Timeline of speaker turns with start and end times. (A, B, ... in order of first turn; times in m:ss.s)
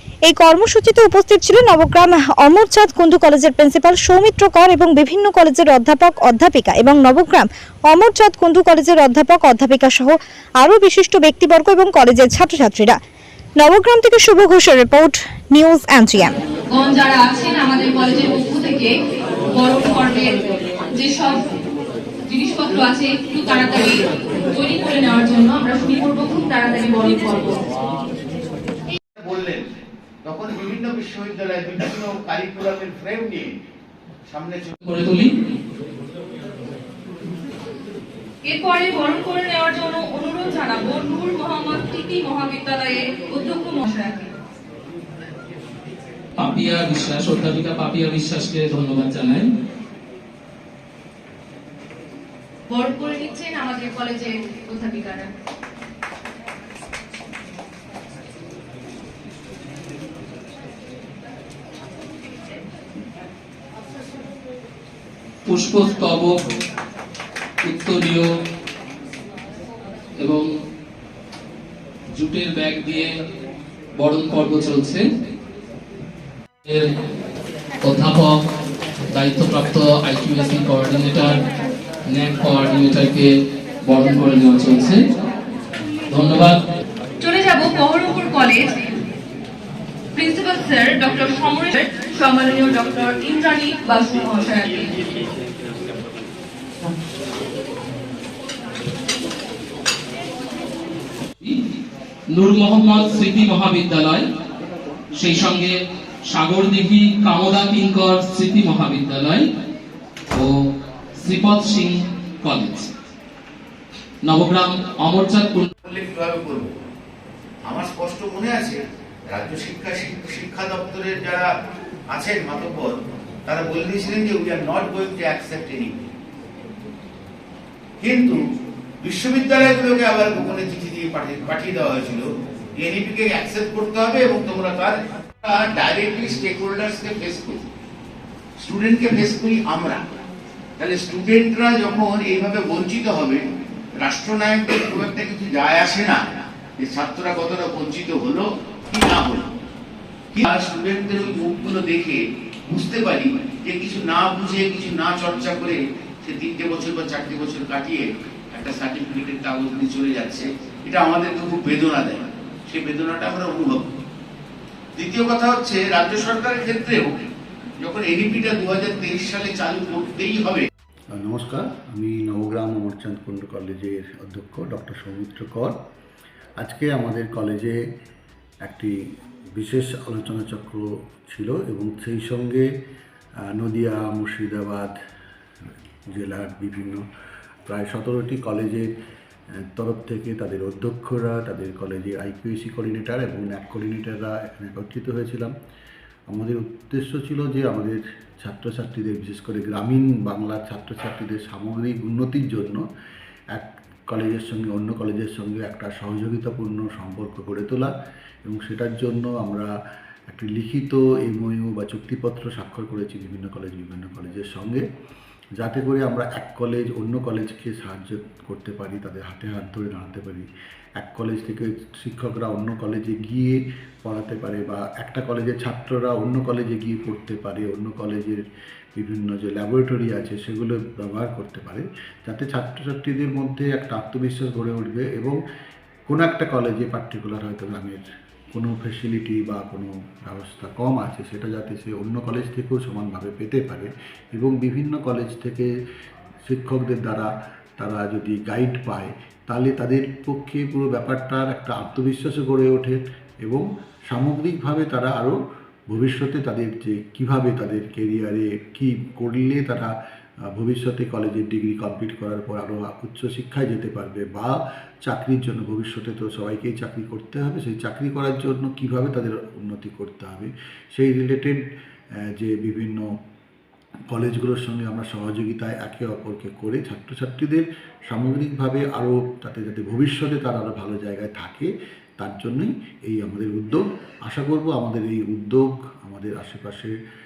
0:00.3-0:13.0 A
0:13.6-0:16.3 A
0:16.7-0:18.9 B
0:19.5-0:20.4 B
0:20.9-0:21.4 B
0:22.3-0:27.6 B
0:29.0-0:33.6 C
0:34.3-0:34.8 C
0:34.8-0:35.3 D
0:38.4-0:44.3 B
0:46.4-0:49.5 D
0:52.7-0:55.3 B
1:05.5-1:06.3 D
1:07.6-1:08.2 D
1:10.2-1:10.5 D
1:12.1-1:13.1 D
1:14.0-1:15.0 D
1:17.8-1:18.3 D
1:19.1-1:21.4 D
1:22.1-1:23.3 D
1:23.8-1:25.0 D
1:26.1-1:26.6 D
1:27.2-1:28.9 B
1:30.1-1:34.9 B
1:42.3-1:44.2 D
1:45.2-1:45.7 D
1:46.3-1:49.4 D
1:51.2-1:52.9 D
1:54.2-1:55.7 D
1:55.8-1:56.7 C
1:57.7-2:01.5 C
2:02.1-2:06.1 C
2:08.0-2:08.4 C
2:09.0-2:17.6 C
2:18.6-2:20.0 C
2:20.8-2:23.4 C
2:24.0-2:29.5 C
2:30.3-2:43.9 C
2:45.0-2:47.1 C
2:47.8-2:50.7 C
2:51.1-2:55.7 E
2:56.6-2:57.8 E
2:58.6-2:58.9 E
2:59.5-3:02.7 E
3:03.5-3:04.9 E
3:06.1-3:07.0 E
3:07.7-3:08.9 E
3:09.7-3:15.5 E
3:16.3-3:22.8 E
3:23.5-3:27.9 E
3:28.4-3:29.7 E
3:30.3-3:34.8 E
3:35.6-3:40.5 E
3:41.0-3:48.4 E
3:49.0-3:55.4 E
3:56.1-4:05.7 E
4:06.4-4:15.4 E
4:15.9-4:19.9 E
4:20.5-4:24.5 E
4:25.0-4:31.6 E
4:32.4-4:33.0 E
4:34.1-4:46.9 E